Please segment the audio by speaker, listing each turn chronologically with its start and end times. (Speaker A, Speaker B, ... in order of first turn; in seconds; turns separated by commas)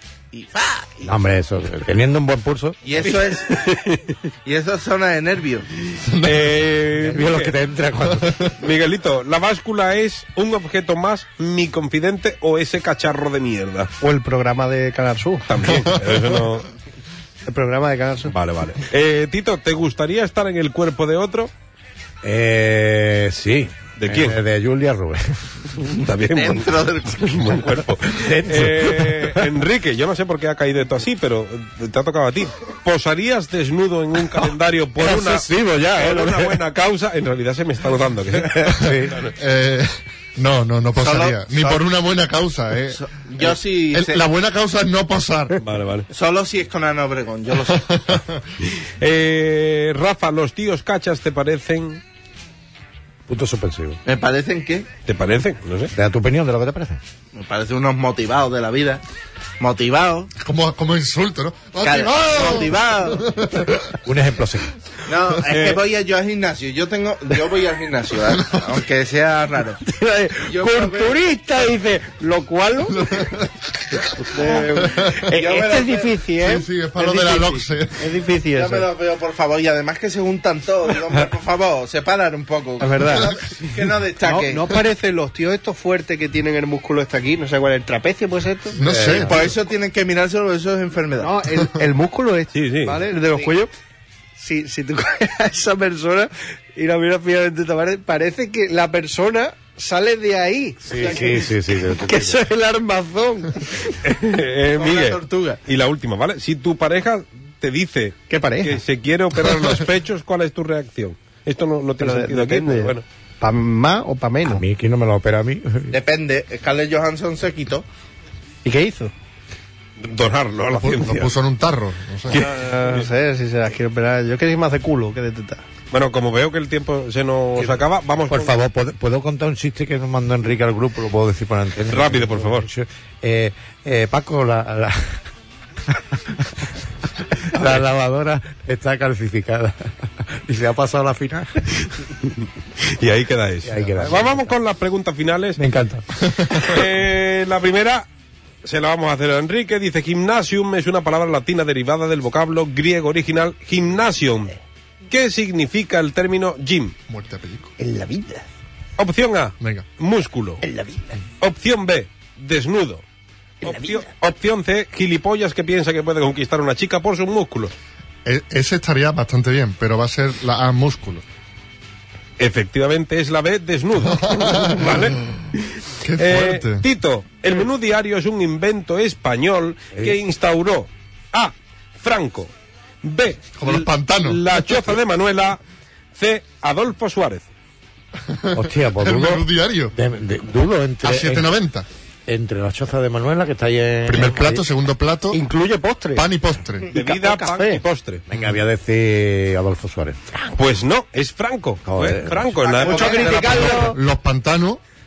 Speaker A: 0.3-1.1, Speaker B: 1.1-2.8, Speaker A: 2.8-3.8, Speaker C: 3.0-4.1, Speaker A: 4.5-5.7, Speaker D: 6.1-6.5, Speaker C: 6.2-7.5, Speaker B: 7.0-8.4, Speaker D: 8.1-8.5, Speaker C: 8.6-13.9, Speaker E: 14.0-15.4, Speaker C: 15.5-16.7, Speaker D: 15.7-16.2, Speaker E: 17.5-18.3, Speaker C: 18.3-21.5, Speaker B: 22.2-25.4, Speaker C: 24.0-24.4, Speaker C: 25.8-39.3, Speaker A: 26.3-27.6, Speaker B: 28.1-29.4, Speaker B: 35.0-36.6, Speaker B: 38.6-39.2, Speaker D: 39.4-45.6, Speaker A: 41.0-41.8, Speaker A: 42.9-44.2, Speaker C: 45.6-46.1, Speaker A: 46.1-48.0, Speaker D: 47.7-48.4, Speaker C: 48.6-52.0, Speaker B: 53.3-54.0, Speaker A: 54.0-54.9, Speaker C: 55.1-55.9, Speaker B: 56.0-57.0, Speaker A: 57.3-59.0, Speaker A: 59.6-60.3, Speaker D: 60.4-63.9, Speaker A: 61.8-63.3, Speaker B: 64.0-64.7, Speaker A: 65.1-69.8, Speaker C: 65.5-65.8, Speaker D: 68.3-68.8, Speaker E: 69.8-73.3, Speaker A: 70.5-71.2, Speaker D: 73.0-73.5, Speaker E: 74.1-78.9, Speaker D: 74.8-75.3, Speaker A: 75.2-76.2, Speaker D: 76.4-78.1, Speaker A: 78.5-84.8, Speaker E: 82.8-83.3, Speaker E: 84.2-88.8, Speaker D: 88.8-89.5, Speaker B: 88.8-89.4, Speaker A: 89.2-91.3, Speaker E: 91.2-93.7, Speaker C: 92.5-93.0, Speaker E: 94.4-104.0, Speaker B: 100.8-102.4, Speaker C: 104.0-113.0, Speaker A: 104.8-105.6, Speaker E: 108.3-108.8, Speaker E: 112.0-114.6, Speaker B: 114.4-115.9, Speaker A: 115.9-117.8, Speaker E: 118.7-119.1, Speaker C: 120.0-121.3, Speaker D: 120.7-122.4, Speaker C: 122.3-123.1, Speaker E: 122.3-125.6, Speaker C: 125.9-128.6, Speaker B: 128.3-135.2, Speaker C: 131.9-132.7, Speaker B: 137.4-141.6, Speaker C: 142.3-145.6, Speaker B: 143.7-144.6, Speaker B: 145.6-146.1, Speaker C: 146.5-148.1, Speaker C: 148.6-154.5, Speaker C: 155.1-156.9, Speaker D: 157.1-157.7, Speaker E: 157.8-158.4, Speaker C: 159.0-160.6, Speaker D: 159.6-159.9, Speaker E: 160.6-161.2, Speaker C: 161.4-163.0, Speaker C: 163.6-167.7, Speaker E: 163.6-164.0, Speaker D: 168.2-171.2, Speaker C: 172.4-182.5, Speaker D: 174.1-175.1, Speaker D: 176.0-176.8, Speaker C: 183.0-185.6, Speaker D: 183.6-184.4, Speaker C: 186.2-187.5, Speaker D: 188.3-189.9, Speaker B: 188.5-191.5, Speaker D: 191.0-191.9, Speaker B: 192.3-194.6, Speaker D: 194.1-195.4, Speaker E: 195.3-196.3, Speaker D: 196.2-196.9, Speaker E: 196.9-197.8, Speaker C: 196.9-198.2, Speaker B: 198.3-200.5, Speaker C: 200.6-203.8, Speaker B: 201.8-202.6, Speaker A: 202.6-203.9, Speaker E: 202.8-204.0, Speaker D: 203.8-204.8